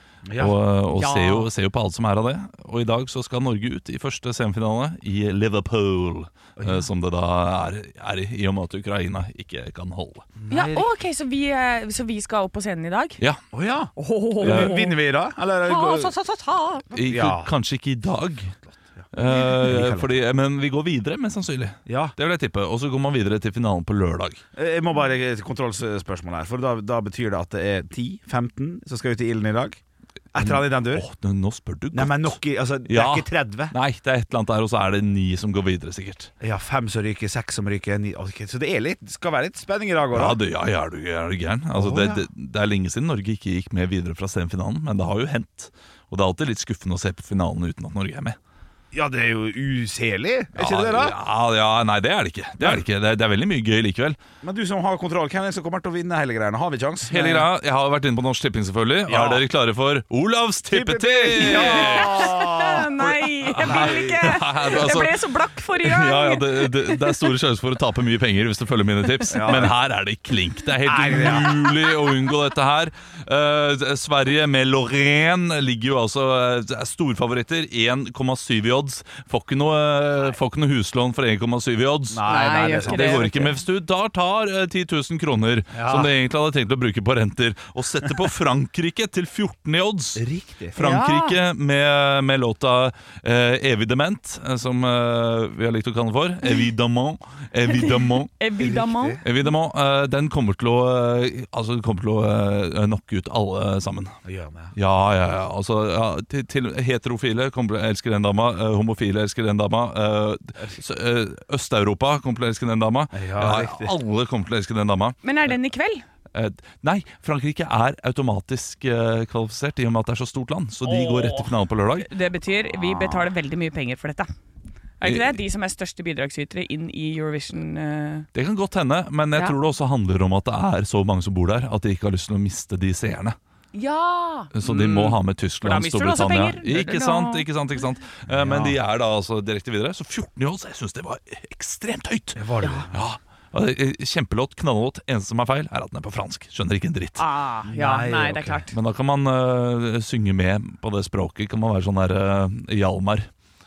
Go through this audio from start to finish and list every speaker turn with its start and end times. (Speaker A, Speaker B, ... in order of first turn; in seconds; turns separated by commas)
Speaker A: 0.2-0.6, Speaker B: 0.4-10.3, Speaker C: 0.9-1.5, Speaker A: 6.6-6.9, Speaker A: 10.4-10.9, Speaker C: 10.5-13.2, Speaker A: 13.5-16.1, Speaker C: 13.9-14.9, Speaker B: 14.4-14.8, Speaker C: 15.6-16.9, Speaker A: 16.9-17.5, Speaker B: 16.9-18.6, Speaker A: 18.7-20.1, Speaker B: 19.1-24.4, Speaker A: 21.9-22.1, Speaker A: 24.6-29.8, Speaker A: 30.3-31.0, Speaker B: 30.4-36.3, Speaker A: 31.9-33.7, Speaker A: 36.4-40.4, Speaker B: 40.1-48.4, Speaker A: 41.7-42.2, Speaker A: 48.9-51.1, Speaker B: 50.5-54.2, Speaker A: 52.6-52.8, Speaker A: 54.4-57.5, Speaker B: 57.1-62.3, Speaker A: 59.1-59.4, Speaker A: 60.7-62.9, Speaker C: 61.4-67.3, Speaker B: 63.0-82.2, Speaker A: 63.6-64.1, Speaker A: 69.3-69.7, Speaker A: 70.8-71.6, Speaker A: 82.1-83.3, Speaker C: 82.2-83.5, Speaker B: 82.8-98.3, Speaker A: 85.7-86.1, Speaker A: 90.2-90.8, Speaker C: 90.8-91.3, Speaker C: 97.7-99.2, Speaker A: 98.6-99.2, Speaker B: 99.2-104.1, Speaker A: 104.2-104.7, Speaker B: 104.7-115.2, Speaker A: 113.1-113.9, Speaker C: 115.2-116.0, Speaker B: 116.3-122.1, Speaker C: 120.8-124.3, Speaker A: 122.8-123.3, Speaker C: 125.0-128.3, Speaker B: 125.0-125.4, Speaker B: 128.3-133.4, Speaker C: 133.7-137.4, Speaker B: 134.5-147.2, Speaker A: 138.3-138.8, Speaker A: 142.3-143.0, Speaker C: 147.2-148.7, Speaker A: 147.7-148.6, Speaker B: 148.7-153.3